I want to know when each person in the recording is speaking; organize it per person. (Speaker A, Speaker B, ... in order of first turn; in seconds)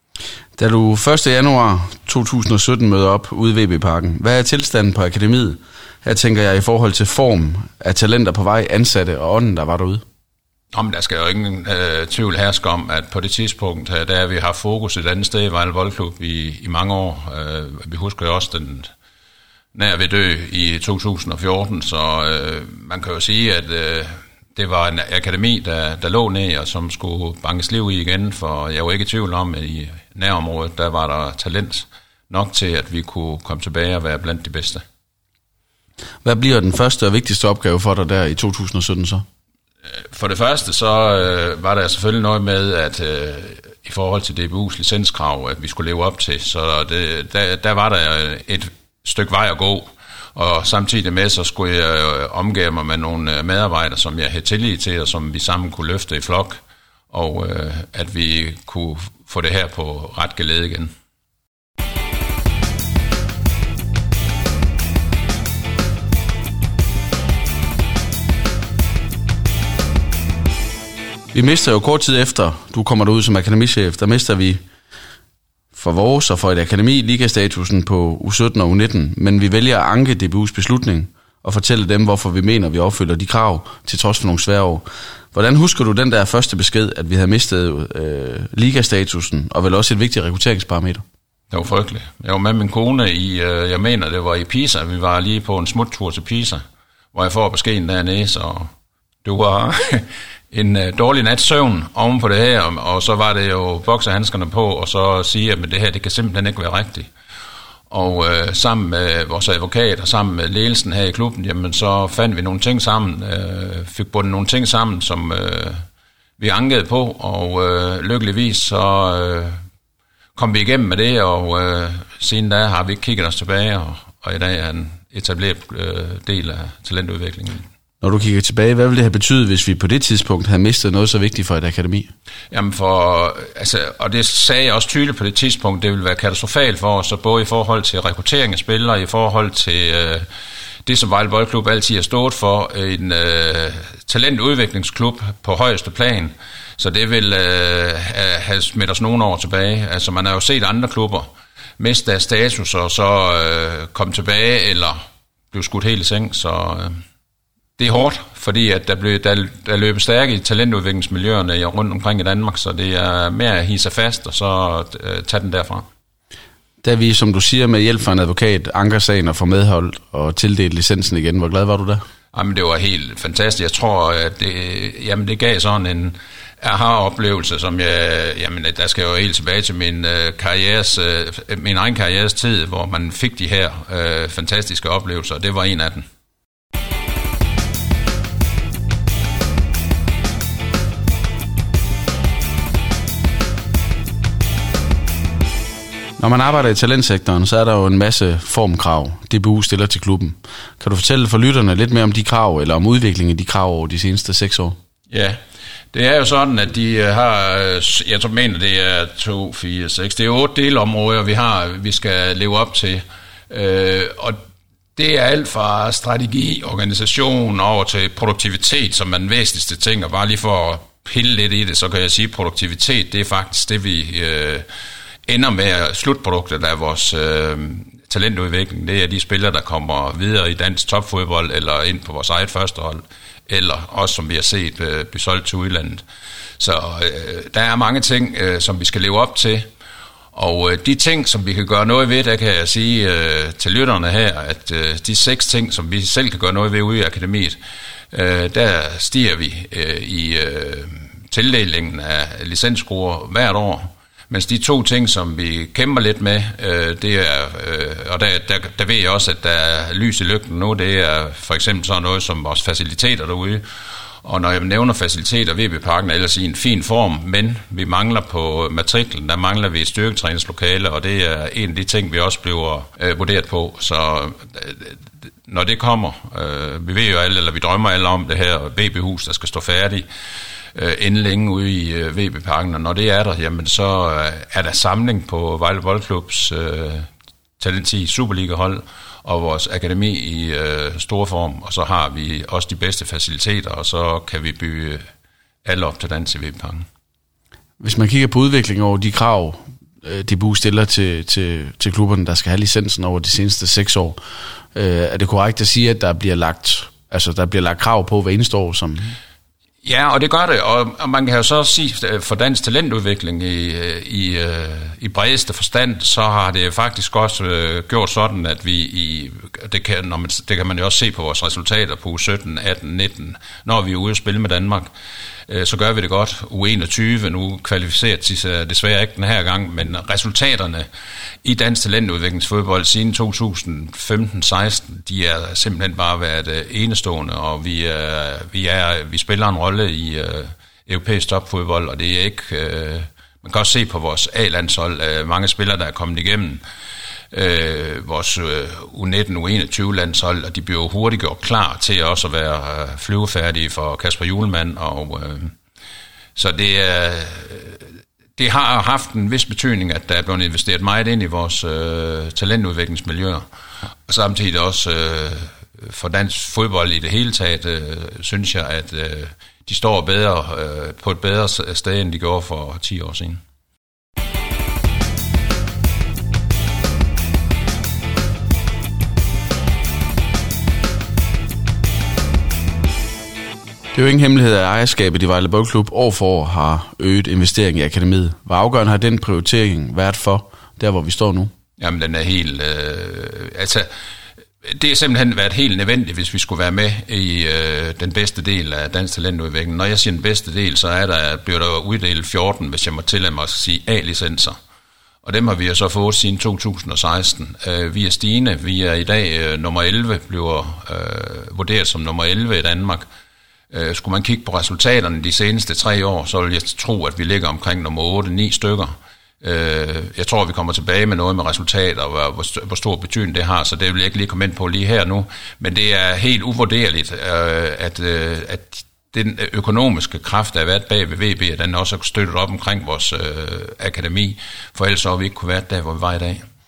Speaker A: 0.6-10.0, 36.2-39.2, 71.3-74.6, 75.7-91.0, 128.0-132.1, 166.8-172.0, 196.2-204.8, 297.8-304.2, 304.7-309.2, 383.9-391.5
Speaker B: 10.7-18.9, 19.7-34.8, 40.1-60.9, 91.5-98.7, 99.2-107.1, 107.9-115.8, 116.4-119.6, 120.3-127.7, 132.5-140.2, 140.8-155.0, 155.5-157.0, 157.8-165.8, 172.3-186.1, 205.1-205.4, 205.9-214.4, 214.9-224.7, 225.3-236.0, 236.6-239.7, 240.3-247.6, 248.1-263.6, 264.2-280.0, 280.7-287.1, 287.6-295.0, 295.6-296.8, 309.8-324.9, 325.5-330.9, 331.4-346.6, 347.3-355.5, 356.4-363.4, 364.1-373.4, 391.8-393.9, 394.6-404.6, 405.2-413.0, 413.7-436.4